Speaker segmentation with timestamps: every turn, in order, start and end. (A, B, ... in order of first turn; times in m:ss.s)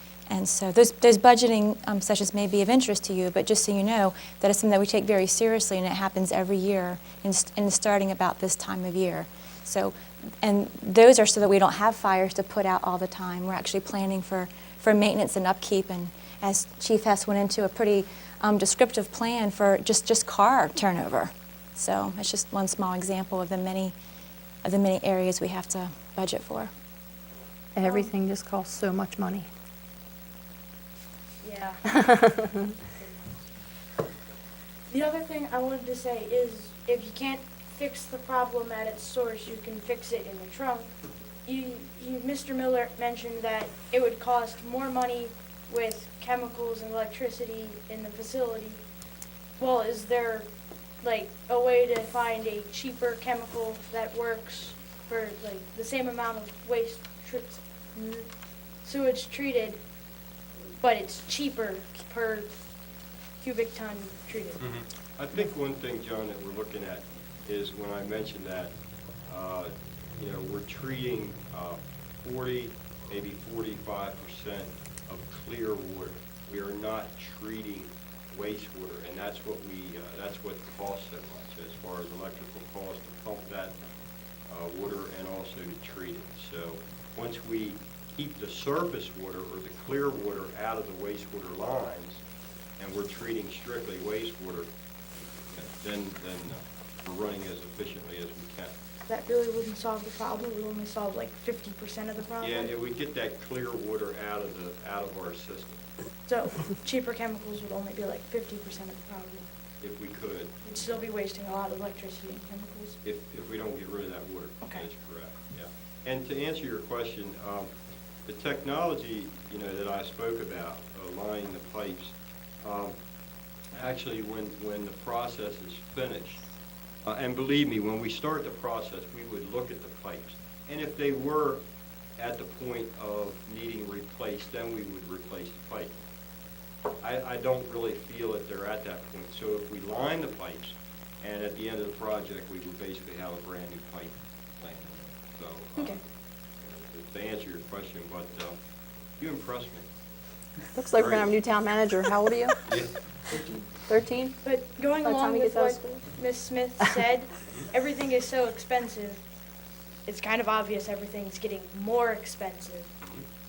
0:00.3-0:24.0 A
0:24.6-0:26.7 A
0:27.8-0:29.5 B
0:27.8-0:28.1 C
0:31.4-0:31.8 C
0:31.9-0:32.5 B
0:32.9-0:33.4 C
0:34.9-0:40.9 C
0:41.4-0:48.8 C
0:49.6-0:50.4 C
0:51.0-0:58.3 C
0:58.8-0:59.8 C
1:00.8-1:02.5 C
1:03.4-1:04.6 C
1:04.6-1:08.7 D
1:09.3-1:23.8 D
1:24.5-1:32.2 D
1:32.8-1:34.7 D
1:35.5-1:38.8 D
1:39.1-1:42.7 C
1:42.4-1:45.8 D
1:46.3-1:49.4 C
1:49.8-1:50.5 D
1:50.6-1:53.0 C
1:53.0-1:57.7 D
1:58.3-2:03.0 D
2:03.8-2:06.4 D
2:07.0-2:11.6 D
2:12.2-2:16.0 D
2:17.0-2:26.0 D
2:26.6-2:28.6 D
2:29.2-2:29.9 D
2:30.7-2:32.5 B
2:30.9-2:31.3 D
2:32.7-2:32.9 D
2:33.9-2:34.4 B
2:34.4-2:39.2 C
2:35.0-2:36.1 B
2:40.0-2:42.9 C